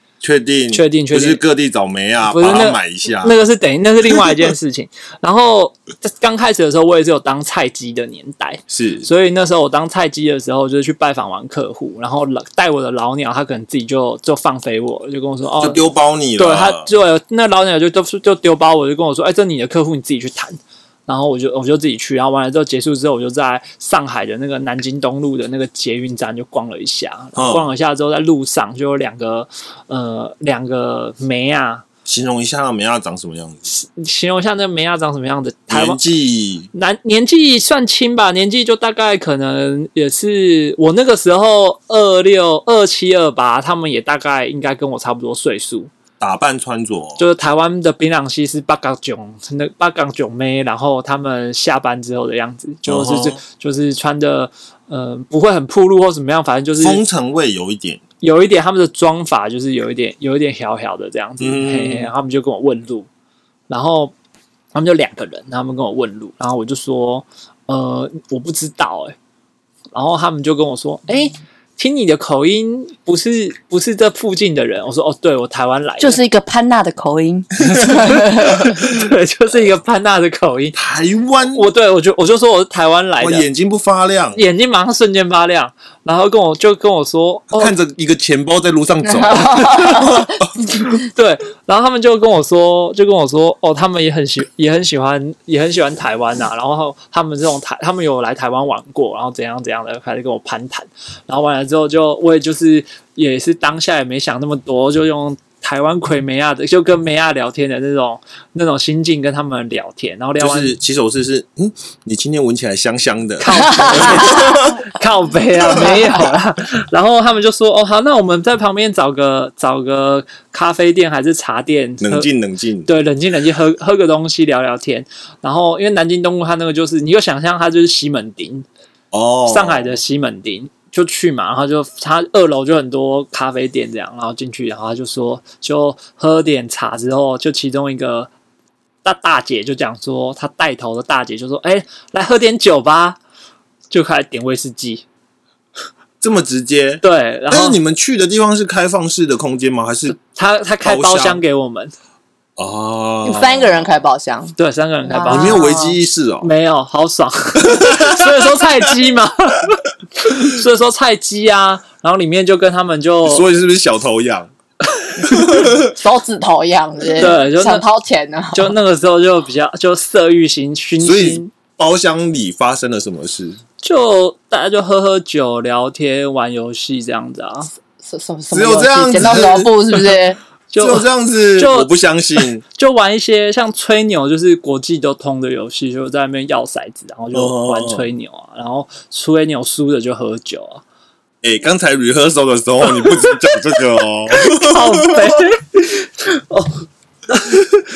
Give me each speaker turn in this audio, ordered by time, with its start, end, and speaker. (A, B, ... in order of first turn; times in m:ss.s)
0:00.2-0:03.4 A
0:00.7-0:01.4 B
0:02.2-0:15.8 B
0:08.7-0:09.1 A
0:15.6-0:16.9 A
0:16.4-0:31.8 B
0:27.4-0:27.6 A
0:32.0-0:33.7 A
0:33.7-0:36.0 B
0:35.7-0:36.7 A
0:36.7-0:45.9 B
0:46.2-0:47.2 A
0:47.2-0:57.0 B
0:52.8-0:53.4 A
0:56.8-0:58.0 A
0:58.2-1:03.1 B
1:01.4-1:02.1 A
1:03.7-1:04.1 B
1:04.7-1:09.2 B
1:09.9-1:16.2 B
1:16.0-1:18.7 C
1:17.7-1:20.8 B
1:20.7-1:21.6 A
1:21.5-1:23.4 B
1:23.2-1:24.4 A
1:24.3-1:27.6 B
1:27.5-1:31.0 A
1:29.0-1:30.3 C
1:31.1-1:50.8 B
1:50.4-1:54.8 A
1:53.4-2:02.3 B
1:53.7-1:54.6 C
2:02.0-2:02.9 A
2:02.8-2:08.6 B
2:09.1-2:10.0 A
2:09.5-2:18.3 B
2:19.0-2:23.2 B
2:23.9-2:25.0 B
2:26.2-2:30.2 A
2:27.0-2:27.8 B
2:30.1-2:31.9 B
2:30.8-2:31.4 A
2:32.6-2:33.8 A
2:33.2-2:34.5 C
2:34.6-2:35.6 B
2:35.1-2:36.0 C
2:35.3-2:36.5 A
2:36.4-2:43.4 B
2:37.6-2:38.4 A
2:43.2-2:44.5 A
2:44.9-2:45.5 B
2:45.2-2:45.9 A
2:45.6-2:48.7 C
2:47.2-2:47.8 B
2:48.5-2:51.5 B
2:51.0-2:53.6 A
2:53.8-2:57.7 B
2:58.0-3:00.4 C
2:58.5-2:59.7 A
3:00.7-3:10.8 B
3:00.8-3:02.6 A
3:07.3-3:08.1 A
3:11.4-3:15.4 A
3:13.0-3:13.6 B
3:14.3-3:16.7 B
3:17.3-3:17.7 B